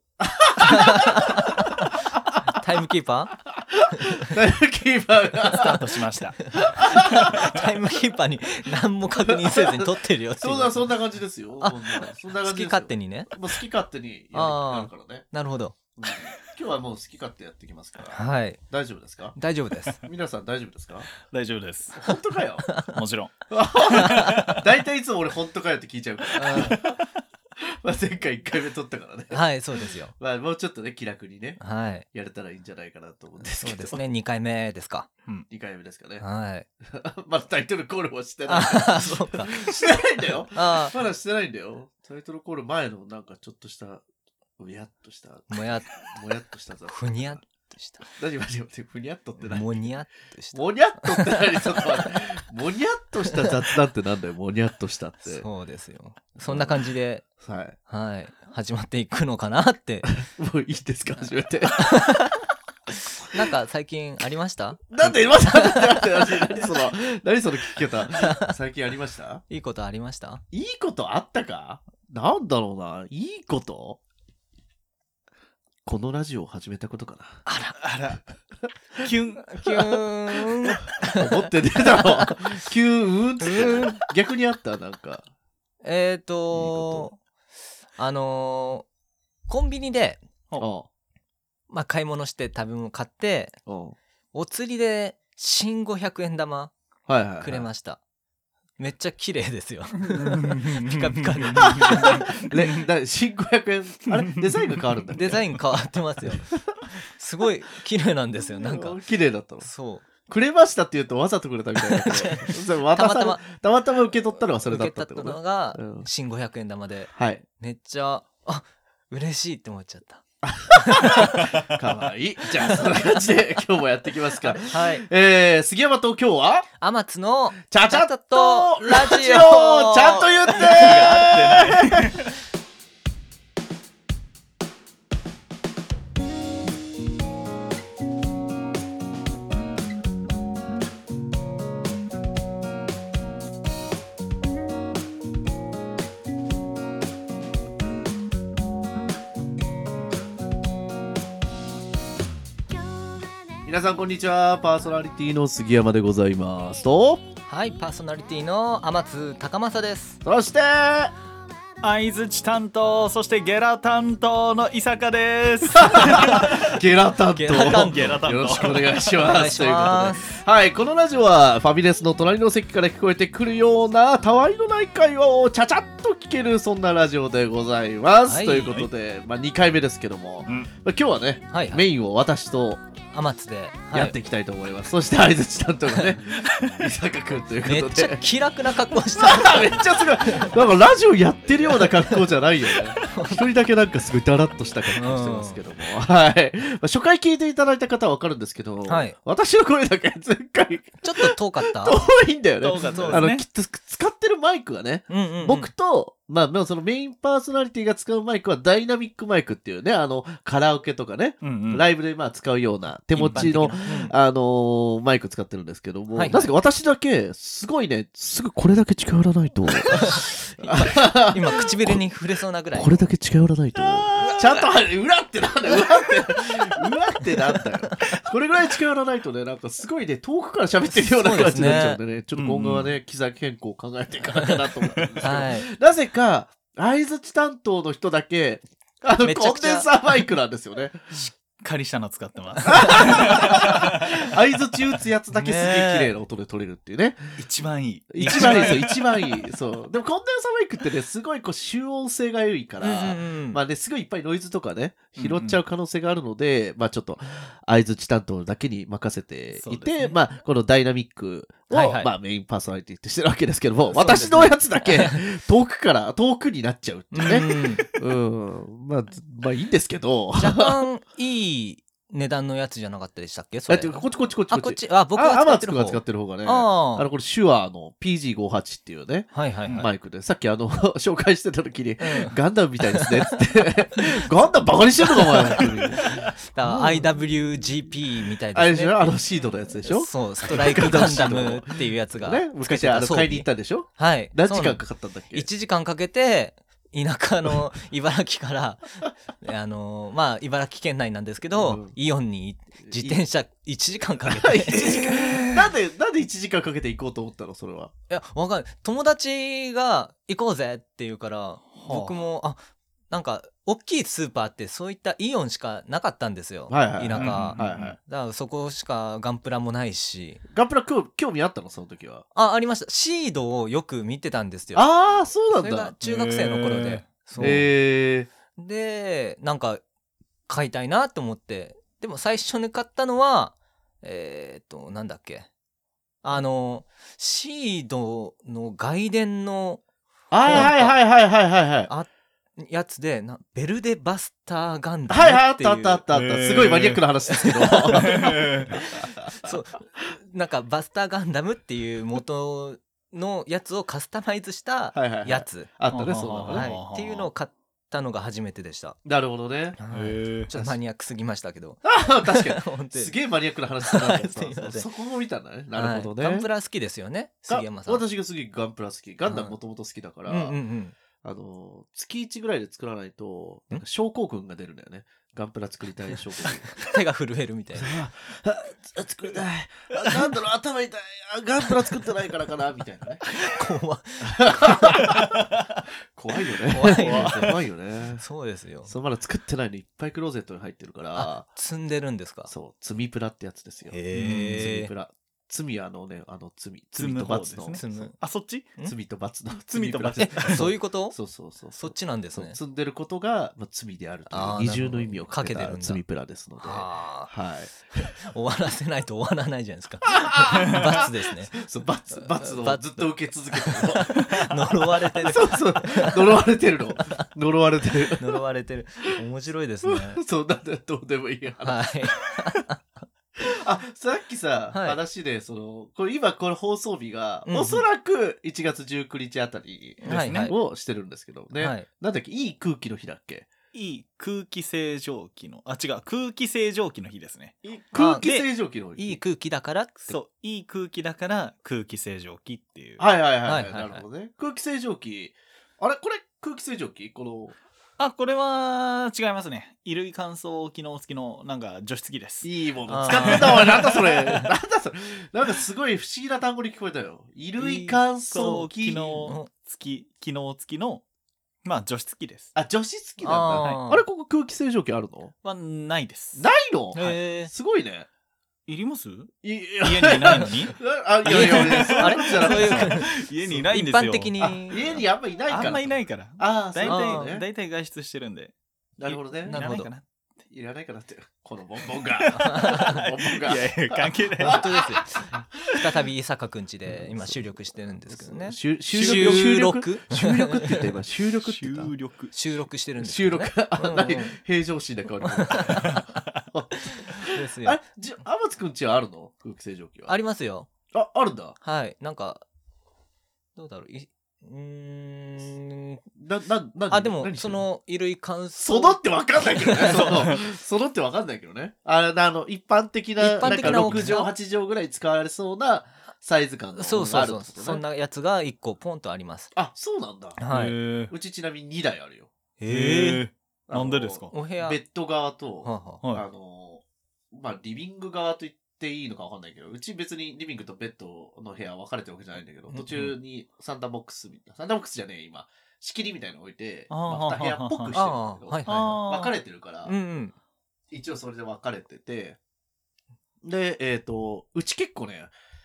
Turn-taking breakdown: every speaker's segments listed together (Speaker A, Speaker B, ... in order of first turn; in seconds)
Speaker A: 0.2-1.6, 4.0-5.8, 6.6-7.5, 9.3-15.3, 15.9-19.4, 20.0-21.1, 21.9-22.8, 23.5-26.9, 27.8-31.6, 32.1-34.0, 35.5-36.2, 36.8-44.0, 44.6-47.4, 48.1-49.7, 50.5-55.5, 56.5-56.8, 57.4-57.8, 60.0-62.1, 64.9-69.4, 70.5-74.0, 75.9-77.4, 79.7-85.3, 86.5-87.1, 90.6-90.9, 93.7-94.0, 97.1-97.7, 101.6-105.6, 108.5-109.7, 110.3-116.1, 117.1-117.5, 120.4-126.7, 127.7-132.1, 153.7-157.2, 160.2-161.1, 165.8-182.8, 183.9-188.2, 189.2-222.0, 222.7-241.3, 242.7-247.4, 248.1-270.8, 273.7-287.1, 288.5-295.5, 301.5-302.0, 302.8-303.2, 304.3-307.9, 311.8-312.2, 316.7-318.0, 320.5-322.3, 324.8-325.9, 327.4-328.3, 340.3-341.9, 345.1-349.6, 354.9-356.7, 359.1-359.8, 360.5-360.8, 361.9-366.5, 367.5-370.6, 371.2-376.8, 377.8-383.3, 384.2-385.3, 386.1-388.2, 388.9-391.5, 392.5-398.1, 398.8-407.9, 410.1-414.4, 415.2-418.4, 419.9-422.2, 423.4-433.5, 437.6-439.2, 443.0-447.6, 452.4-459.4, 462.6-465.3, 466.4-468.1, 469.4-473.7, 474.4-477.4, 479.0-479.6, 480.5-483.8, 484.4-485.3, 486.9-491.9, 493.0-500.2, 500.9-501.6, 506.2-507.7, 508.6-517.9, 519.5-520.4, 521.1-522.3, 523.7-540.0, 540.9-542.4, 543.4-545.3
Speaker B: 0.7-1.7, 2.5-3.4, 5.5-10.9, 11.6-13.4, 14.3-15.8, 18.1-18.6, 19.4-20.0, 22.7-22.9, 26.4-26.8, 29.3-30.1, 31.6-32.1, 33.4-35.1, 36.2-36.7, 38.5-39.9, 40.5-41.0, 45.5-46.2, 46.9-48.0, 49.4-52.2, 55.2-57.3, 57.9-60.1, 61.9-62.3, 63.3-66.0, 66.6-66.9, 68.1-68.5, 69.5-70.4, 77.5-77.8, 79.4-81.3, 81.9-82.4, 83.4-84.1, 85.8-87.2, 88.0-88.9, 89.5-90.2, 91.7-93.6, 94.3-96.7, 97.4-98.0, 98.8-102.3, 105.1-109.0, 109.6-110.1, 112.1-113.4, 114.6-120.2, 120.9-121.4, 122.7-123.0, 124.4-125.1, 126.8-131.7, 157.5-160.2, 166.0-166.6, 167.3-168.2, 169.2-170.4, 178.2-178.8, 181.5-181.8, 183.1-184.2, 185.9-186.2, 187.6-190.6, 191.8-192.3, 193.0-193.5, 195.0-195.6, 198.9-199.2, 201.0-202.0, 202.9-203.3, 205.1-205.7, 213.3-214.2, 216.1-216.5, 219.9-223.1, 224.1-224.6, 226.3-226.8, 230.8-232.0, 235.2-235.7, 239.2-240.3, 245.3-246.1, 248.2-248.8, 252.8-253.6, 259.5-260.1, 261.7-262.1, 263.8-265.2, 267.1-267.9, 270.4-277.1, 279.3-279.9, 282.0-283.3, 285.1-305.0, 308.1-320.4, 322.3-327.7, 328.6-329.8, 330.5-335.5, 336.2-339.8, 340.4-341.0, 341.9-346.0, 347.3-348.1, 348.7-359.0, 359.8-363.2, 363.7-364.9, 365.8-368.1, 369.2-369.6, 370.3-370.9, 376.8-378.0, 383.3-385.1, 386.7-387.5, 388.2-388.9, 391.1-392.5, 394.1-394.9, 397.8-398.1, 400.4-401.2, 401.7-402.6, 404.3-406.0, 406.6-407.3, 408.0-411.6, 412.1-416.4, 417.0-417.3, 418.2-420.2, 421.6-422.8, 424.7-425.0, 427.5-427.9, 430.0-430.6, 431.6-431.9, 437.9-438.3, 438.9-440.2, 443.4-444.1, 452.9-454.5, 458.4-458.7, 463.2-464.1, 466.9-467.5, 471.2-473.1, 473.7-475.0, 476.9-477.3, 479.4-479.9, 482.4-483.0, 484.4-491.0, 492.3-494.4, 495.4-495.8, 497.3-497.8, 500.1-500.7, 501.6-502.4, 503.6-506.1, 506.9-510.3, 513.2-514.3, 516.8-519.5, 520.4-520.8, 522.6-523.2, 524.3-524.8, 525.6-526.0, 537.9-539.0, 539.9-540.3
Speaker C: 5.6-6.4, 21.2-22.1, 22.9-23.3, 23.9-24.6, 26.5-27.0, 77.8-78.2, 79.0-79.6, 100.0-102.8, 104.1-104.9, 130.5-132.3, 161.8-166.7, 167.6-169.2, 180.4-180.7, 186.3-186.7, 202.6-203.4, 211.4-211.9, 213.2-213.8, 231.6-232.9, 241.6-244.1, 247.4-249.2, 255.2-255.6, 305.0-305.7, 317.1-318.0, 326.0-327.7, 346.1-347.1, 347.9-348.7, 356.0-357.3, 359.9-360.5, 386.8-387.6, 393.9-394.6, 396.9-398.7, 399.5-400.7, 430.1-430.6, 433.7-437.6, 438.2-438.5, 440.0-443.1, 448.0-452.5, 453.1-454.0, 457.6-461.0, 461.6-462.5, 463.6-463.8, 465.4-466.4, 468.7-474.6, 475.5-478.5, 479.1-480.0, 481.9-484.6, 488.9-489.9, 491.4-492.3, 495.8-496.2, 509.9-510.4, 513.4-514.1, 520.5-521.1, 522.7-524.4, 526.0-526.3, 532.9-533.2, 536.9-538.0, 538.7-539.4